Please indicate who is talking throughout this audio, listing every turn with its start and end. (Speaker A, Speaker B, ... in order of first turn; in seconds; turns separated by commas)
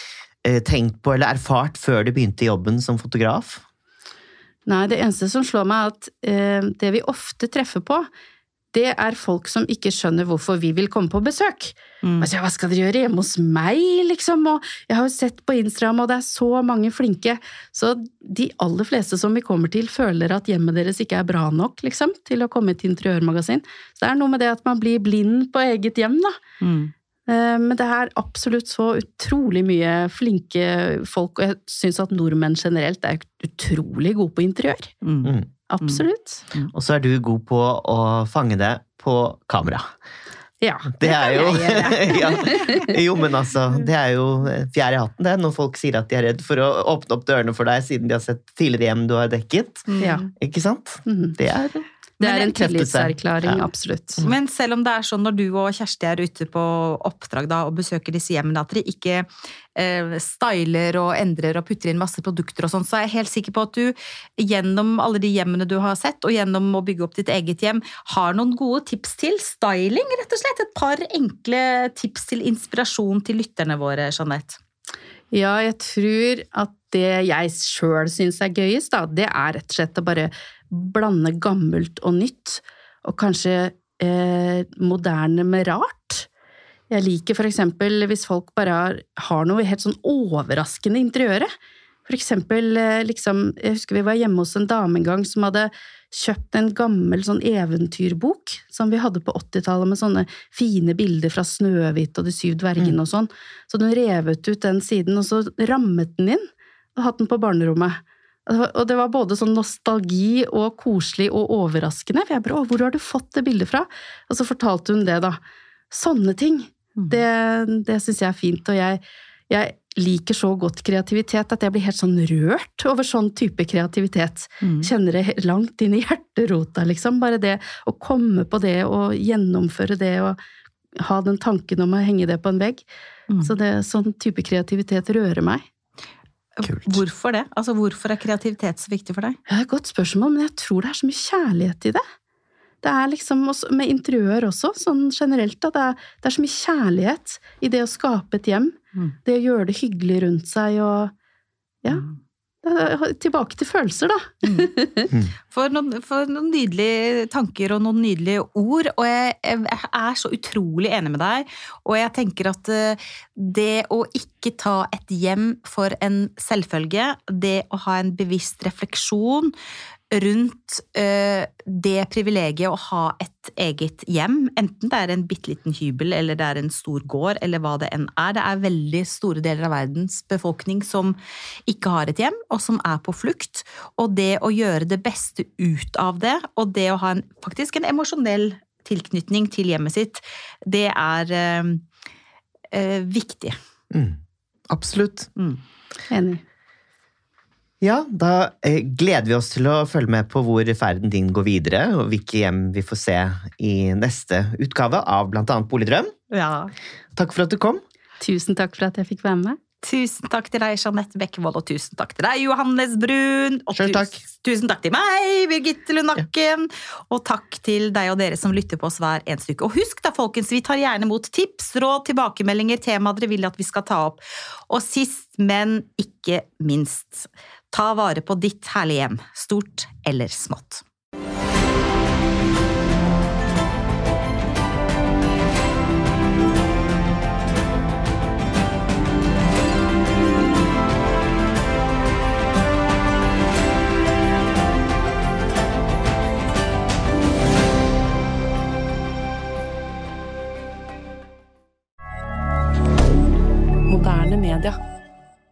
Speaker A: 0.4-3.6, Speaker B: 4.7-8.1, Speaker B: 8.7-26.4, Speaker C: 12.0-12.3, Speaker C: 26.6-26.9, Speaker B: 27.3-34.9, Speaker C: 35.0-36.7, Speaker A: 35.2-35.5, Speaker B: 35.7-36.4, Speaker A: 36.7-39.9, Speaker B: 40.6-42.9, Speaker A: 41.0-53.6, Speaker C: 49.9-50.2, Speaker B: 50.0-50.3, Speaker B: 51.1-51.4, Speaker B: 52.2-54.2, Speaker C: 54.2-74.6, Speaker B: 75.3-86.3, Speaker B: 86.9-91.5, Speaker B: 92.1-115.4, Speaker B: 115.9-130.4, Speaker C: 124.6-124.9, Speaker B: 131.0-132.9, Speaker B: 133.4-135.7, Speaker C: 136.6-139.4, Speaker A: 136.7-137.0, Speaker B: 139.5-142.0, Speaker B: 142.8-151.1, Speaker B: 152.6-155.1, Speaker C: 154.4-154.7, Speaker C: 155.5-169.5, Speaker C: 170.1-181.2, Speaker C: 181.7-191.8, Speaker C: 192.7-193.6, Speaker A: 193.9-194.2, Speaker A: 194.7-195.3, Speaker B: 196.1-196.4, Speaker A: 197.8-206.1, Speaker C: 206.3-206.7, Speaker A: 207.2-207.8, Speaker B: 208.2-209.6, Speaker C: 209.8-230.8, Speaker A: 213.8-214.2, Speaker B: 253.9-254.8